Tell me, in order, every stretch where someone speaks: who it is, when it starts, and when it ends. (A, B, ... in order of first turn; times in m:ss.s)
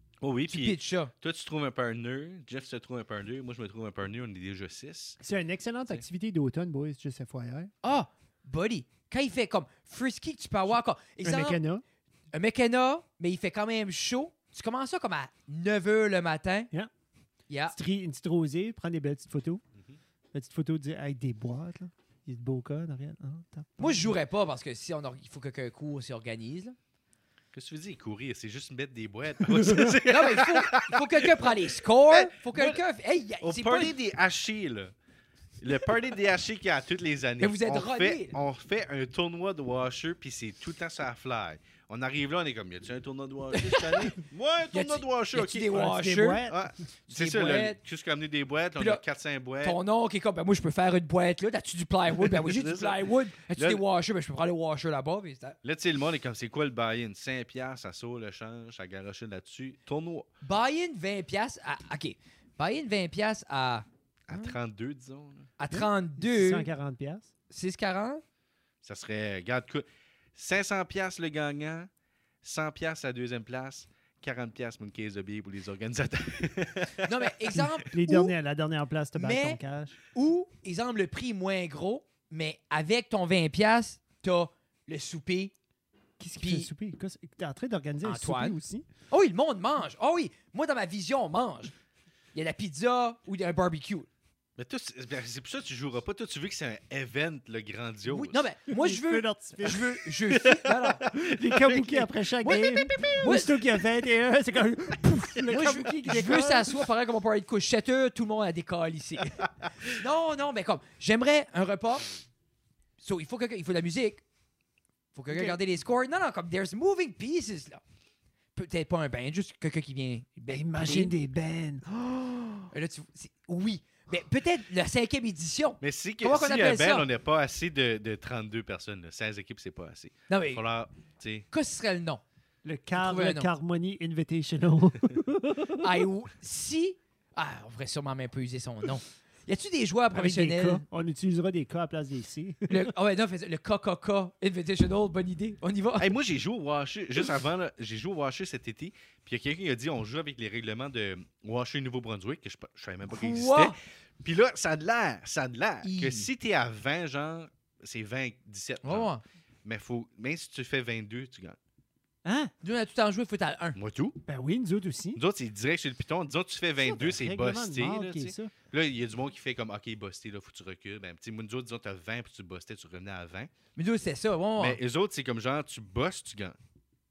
0:00.2-0:05.2 A
0:00.5-0:01.1 B
0:05.2-0:07.7 C
0:07.8-0:11.6 B
0:11.2-0:11.8 C
0:12.3-0:16.7 B
0:17.5-0:17.8 B
0:17.7-0:19.6 C
0:20.3-0:24.1 C
0:23.8-0:26.8 B
0:27.5-0:32.8 A
0:29.6-0:29.9 C
0:30.0-0:33.9 B
0:33.4-0:34.9 A
0:35.6-0:45.8 A
0:37.4-0:38.4 B
0:43.5-0:44.2 B
0:44.7-0:46.5 B
0:45.7-0:46.7 C
0:46.4-0:49.8 A
0:47.1-0:47.8 B
0:48.8-0:49.0 B
0:49.6-0:55.6 B
0:52.2-0:53.8 A
0:55.6-1:00.3 A
1:00.4-1:04.5 B
1:04.3-1:05.5 A
1:05.6-1:06.7 B
1:05.7-1:07.3 C
1:07.5-1:08.2 B
1:08.8-1:11.9 A
1:12.4-1:17.7 A
1:17.0-1:18.3 B
1:17.8-1:20.0 C
1:19.2-1:19.6 B
1:20.1-1:25.5 B
1:26.2-1:28.8 C
1:26.4-1:26.7 B
1:28.0-1:28.6 B
1:29.1-1:31.7 B
1:32.3-1:34.1 B
1:34.6-1:38.4 A
1:38.1-1:41.0 B
1:38.7-1:40.0 C
1:40.3-1:42.0 A
1:41.0-1:46.8 C
1:42.4-1:43.6 B
1:45.5-1:52.1 B
1:53.0-1:54.2 B
1:55.1-1:57.8 B
1:55.3-1:55.6 C
1:58.5-2:01.1 B
2:00.5-2:02.7 C
2:02.7-2:07.1 B
2:05.8-2:11.4 A
2:10.3-2:10.6 B
2:11.5-2:12.2 B
2:12.6-2:16.1 C
2:12.9-2:13.5 B
2:15.8-2:20.8 B
2:20.1-2:22.9 C
2:22.7-2:26.1 B
2:26.0-2:39.1 A
2:33.1-2:33.8 B
2:35.8-2:36.3 B
2:38.8-2:39.2 B
2:39.6-2:41.6 A
2:42.2-2:42.5 C
2:42.6-2:43.8 B
2:43.8-2:44.2 A
2:44.3-2:45.2 C
2:45.1-2:53.5 A
2:46.8-2:48.5 C
2:53.8-2:54.8 B
2:54.6-2:56.6 A